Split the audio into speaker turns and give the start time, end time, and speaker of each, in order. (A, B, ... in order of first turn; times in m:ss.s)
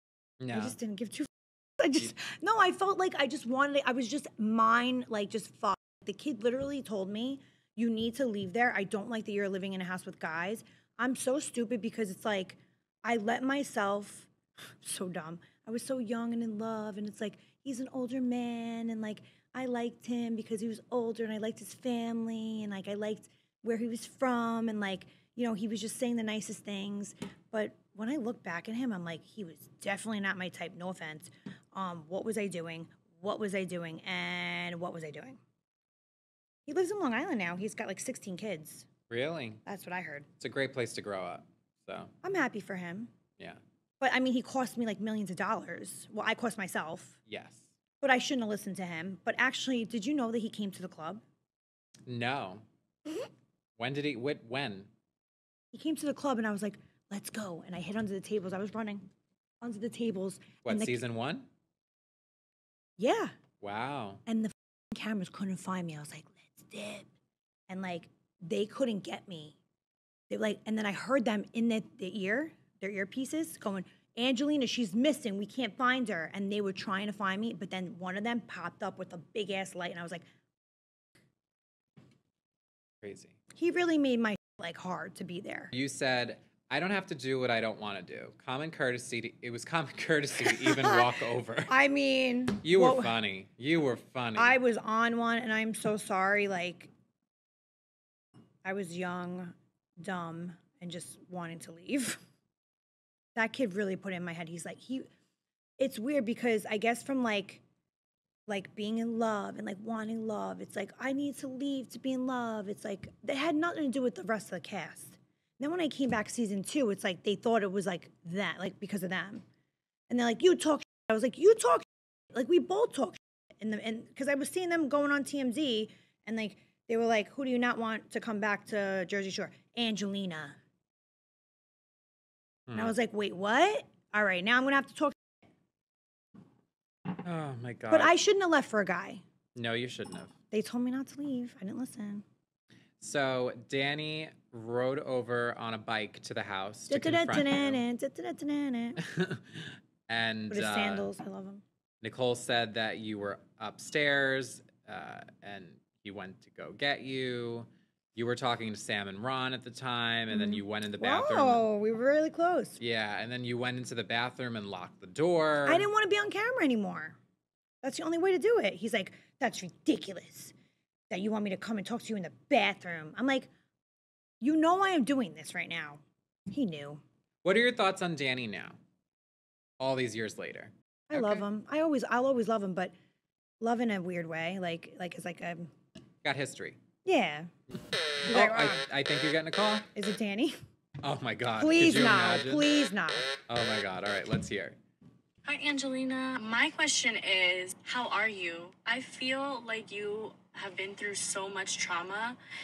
0:00.4-0:00.8 A
0:00.5-0:14.3 B
0:14.8-0:35.4 B
0:36.7-0:38.9 B
0:39.1-0:39.6 A
0:39.6-0:40.3 B
0:40.4-0:42.1 A
0:42.2-0:43.1 B
0:44.0-0:47.2 B
0:47.3-0:47.6 A
0:48.0-0:51.2 B
0:52.0-0:52.6 A
0:53.8-0:54.9 A
0:55.7-0:59.1 B
0:59.6-1:01.0 B
1:00.6-1:01.5 A
1:03.0-1:03.3 B
1:03.6-1:04.2 A
1:04.2-1:07.0 B
1:07.7-1:09.6 B
1:10.3-1:20.2 B
1:23.0-1:23.4 A
1:23.5-1:25.7 B
1:25.7-1:31.7 A
1:30.4-1:31.1 B
1:31.6-1:33.1 B
1:32.6-1:34.6 A
1:34.4-1:36.9 B
1:38.6-1:42.2 B
1:43.4-1:45.1 B
1:45.8-1:47.6 B
1:48.5-1:59.4 B
2:00.1-2:10.6 B
2:12.7-2:12.9 A
2:12.7-2:15.2 B
2:17.2-2:18.1 A
2:17.9-2:19.2 B
2:19.5-2:20.3 A
2:20.5-2:22.2 B
2:23.0-2:27.8 A
2:26.9-2:29.0 B
2:29.0-2:31.0 A
2:30.5-2:31.6 B
2:32.0-2:41.6 A
2:40.3-2:42.8 B
2:42.8-2:45.9 A
2:45.6-2:47.2 B
2:47.8-2:50.5 B
2:51.1-2:53.5 B
2:54.4-2:57.0 B
2:57.4-2:58.8 A
2:59.8-3:01.4 A
3:01.1-3:02.9 B
3:03.6-3:05.7 B
3:06.2-3:06.8 A
3:07.0-3:07.5 B
3:08.2-3:09.9 A
3:08.3-3:08.8 B
3:09.9-3:10.6 B
3:11.0-3:12.7 A
3:11.6-3:13.3 B
3:13.5-3:14.8 A
3:15.4-3:22.4 C